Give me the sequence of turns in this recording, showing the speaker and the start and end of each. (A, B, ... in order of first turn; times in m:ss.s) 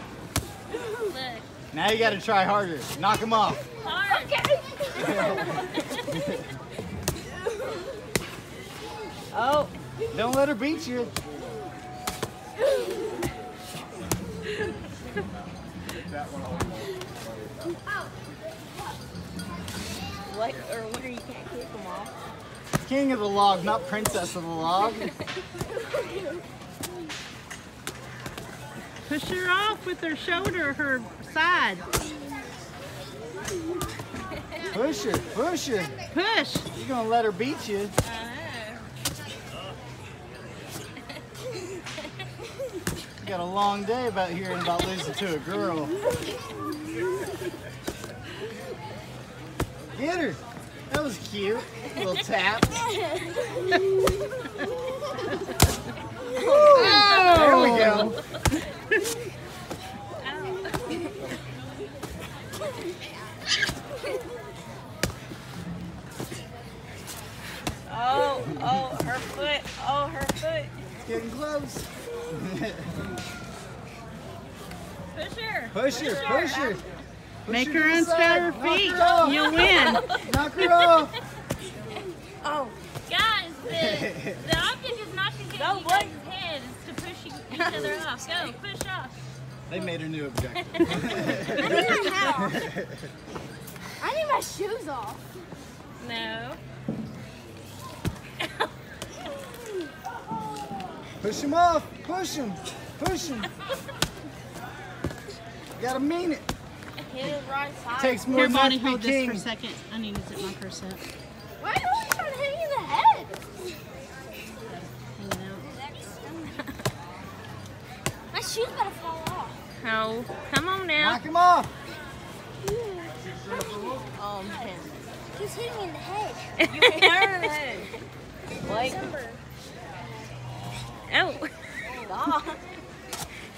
0:00.7-0:01.5 A
0:01.7-0:03.6 B
0:03.8-0:04.4 A
0:04.4-0:05.2 C
0:04.9-0:06.5 B
0:05.1-0:05.5 D
0:05.4-0:06.0 A
0:09.3-0:09.7 D
0:10.1-0:11.1 B
0:20.3-0:22.1 D
0:22.8-0:25.1 B
0:29.1-0:31.8 E
0:34.7-0:35.9 B
0:36.1-0:36.6 E
0:36.7-0:37.9 B
0:38.0-0:38.8 A
0:43.2-0:46.0 B
0:49.9-0:52.8 B
0:56.4-0:57.2 D
0:56.4-0:58.1 A
0:56.7-0:58.1 E
0:57.1-0:58.2 B
1:00.2-1:01.1 A
1:07.9-1:10.7 D
1:11.0-1:13.0 B
1:15.1-1:16.8 A
1:15.7-1:16.8 B
1:15.9-1:16.7 D
1:17.4-1:21.2 B
1:17.5-1:20.1 E
1:18.8-1:20.3 D
1:22.4-1:22.7 D
1:23.1-1:29.1 A
1:23.7-1:24.4 B
1:25.5-1:26.1 D
1:27.5-1:28.4 D
1:29.7-1:33.0 B
1:30.7-1:31.0 A
1:31.6-1:32.6 C
1:31.6-1:32.0 D
1:34.0-1:35.2 C
1:36.0-1:36.6 A
1:41.2-1:43.5 B
1:45.8-1:46.5 B
1:47.0-1:48.4 D
1:48.0-1:49.4 B
1:48.3-1:51.0 E
1:51.6-1:53.3 C
1:54.7-1:55.7 E
1:55.6-1:56.6 C
1:58.3-1:59.6 C
1:59.8-2:01.2 A
2:01.0-2:01.7 B
2:04.1-2:04.9 D
2:05.3-2:06.5 C
2:06.6-2:07.5 A
2:06.6-2:07.9 D
2:08.6-2:09.1 D
2:11.1-2:11.5 A
2:11.9-2:12.6 D